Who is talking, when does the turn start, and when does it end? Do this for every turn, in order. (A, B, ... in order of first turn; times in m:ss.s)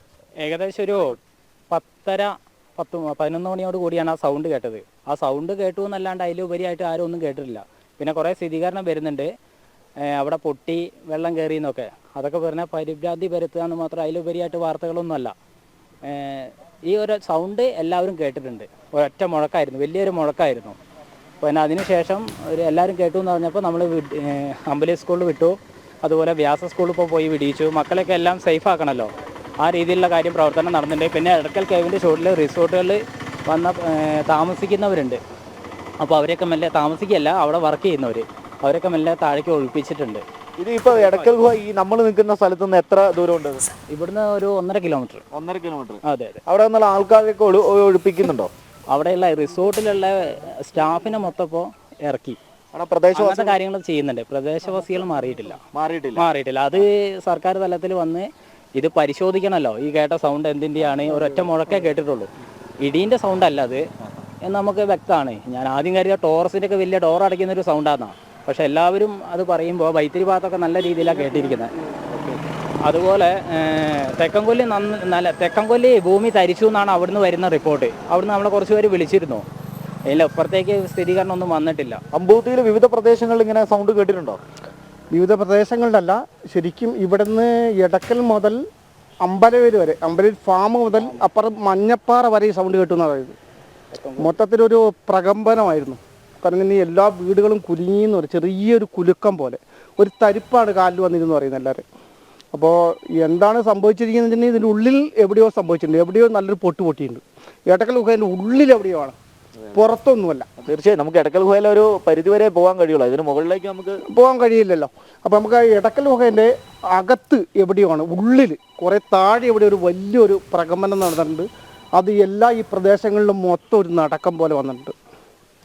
0:00.4-0:01.2 A
0:01.7-0:09.3 A
0:10.0-0:15.3 A
0:16.1-0:20.8 A
0:21.4-0:35.2 A
0:36.0-0:40.2 A
0:40.6-0:43.6 B
0:40.9-0:41.3 A
0:43.9-0:45.2 A
0:45.3-0:48.5 B
0:46.1-0:46.4 A
0:48.9-0:52.4 A
0:52.7-0:53.6 B
0:53.1-0:55.6 A
0:55.7-0:56.2 B
0:56.2-1:02.3 A
1:00.9-1:01.9 C
1:02.8-1:03.8 A
1:04.4-1:11.7 A
1:11.0-1:12.0 C
1:12.8-1:19.4 A
1:20.1-1:22.0 A
1:22.1-1:24.4 B
1:25.1-1:28.6 C
1:29.2-1:33.4 C
1:30.9-1:31.3 A
1:33.9-1:34.4 A
1:34.2-1:41.8 C
1:42.5-1:49.2 C
1:49.7-1:50.5 C
1:50.6-1:54.0 B
1:54.1-2:04.9 C